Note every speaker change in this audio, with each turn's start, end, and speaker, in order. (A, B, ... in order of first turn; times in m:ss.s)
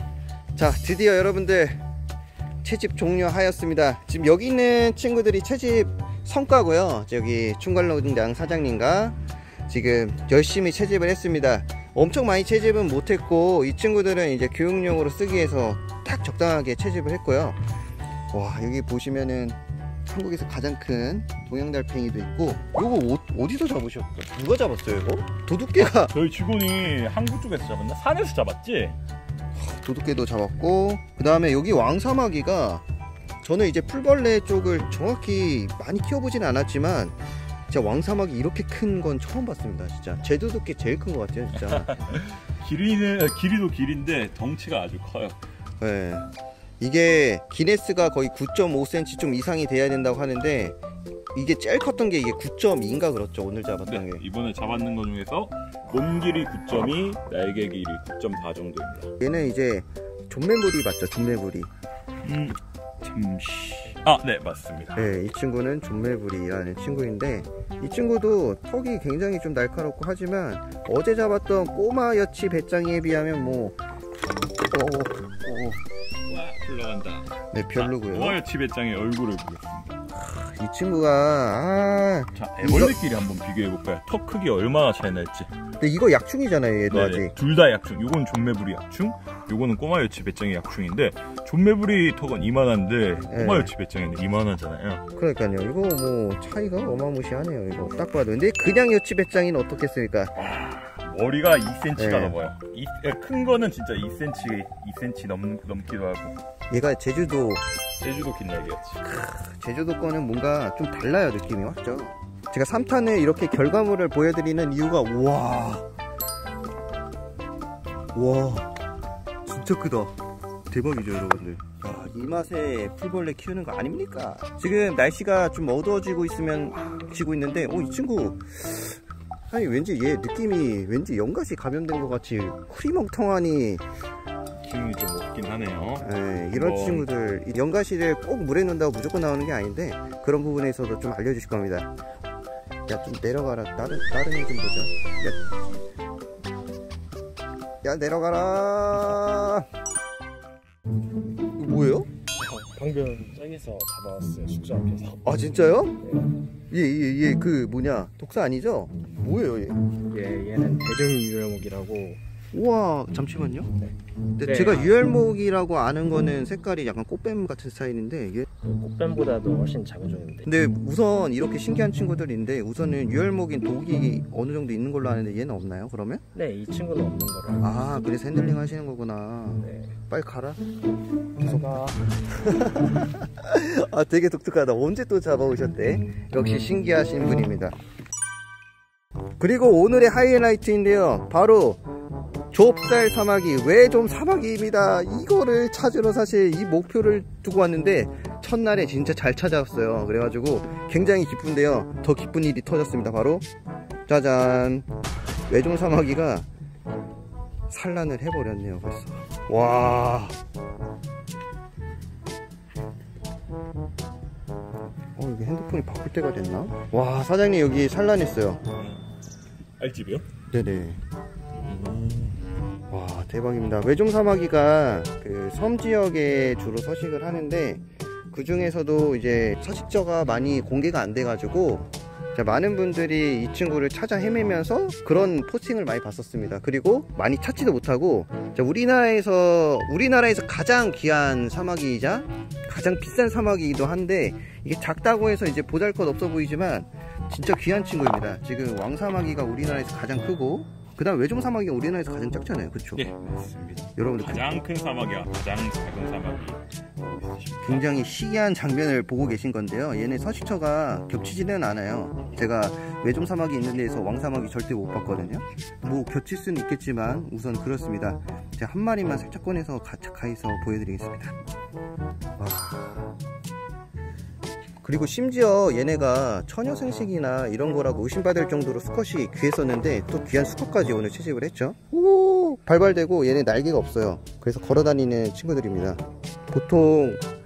0:00.6-0:01.8 A
0:02.6-0:17.6 A
0:18.3-0:26.1 A
0:25.8-0:29.0 B
0:29.6-0:32.8 A
0:33.4-0:37.2 A
0:37.7-0:42.0 A
0:41.6-0:45.4 B
0:45.8-0:46.3 A
0:46.8-0:50.8 A
0:51.3-0:54.2 A
0:53.9-0:59.1 B
0:59.2-1:01.7 A
1:02.2-1:05.1 B
1:05.0-1:13.8 A
1:14.7-1:15.8 A
1:16.3-1:20.0 B
1:17.5-1:18.4 A
1:20.1-1:23.0 A
1:22.4-1:25.5 B
1:25.8-1:27.3 A
1:26.9-1:35.1 B
1:33.3-1:33.7 A
1:35.2-1:40.3 A
1:40.4-1:46.4 B
1:42.0-1:42.4 A
1:46.7-1:47.6 A
1:48.0-1:49.0 B
1:49.0-1:55.9 A
1:58.1-1:58.7 A
1:59.5-2:00.1 A
2:00.7-2:09.0 A
2:09.5-2:13.8 A
2:14.6-2:17.1 B
2:16.0-2:21.9 A
2:22.9-2:25.4 A
2:27.8-2:29.7 A
2:31.5-2:32.1 A
2:32.4-2:36.3 C
2:35.2-2:36.0 A
2:36.7-2:39.8 A
2:40.1-2:42.2 C
2:42.5-2:43.7 A
2:43.8-2:45.0 C
2:44.4-2:48.5 A
2:48.6-2:50.5 C
2:50.4-2:56.2 A
2:56.3-2:57.8 C
2:57.6-3:00.6 A
2:59.6-2:59.9 C
3:01.4-3:02.0 C
3:02.3-3:07.8 A
3:09.4-3:11.8 A
3:12.5-3:23.4 A
3:24.1-3:24.9 A
3:25.5-3:26.5 A
3:27.7-3:30.4 A
3:35.2-3:38.6 A
3:38.8-3:39.0 B
3:39.8-3:40.3 B
3:40.5-3:41.0 A
3:41.7-3:42.4 B
3:42.9-4:13.0 A
4:13.0-4:18.0 B
4:14.0-4:14.6 A
4:17.6-4:31.4 A
4:32.4-4:33.2 A
4:34.8-4:47.2 A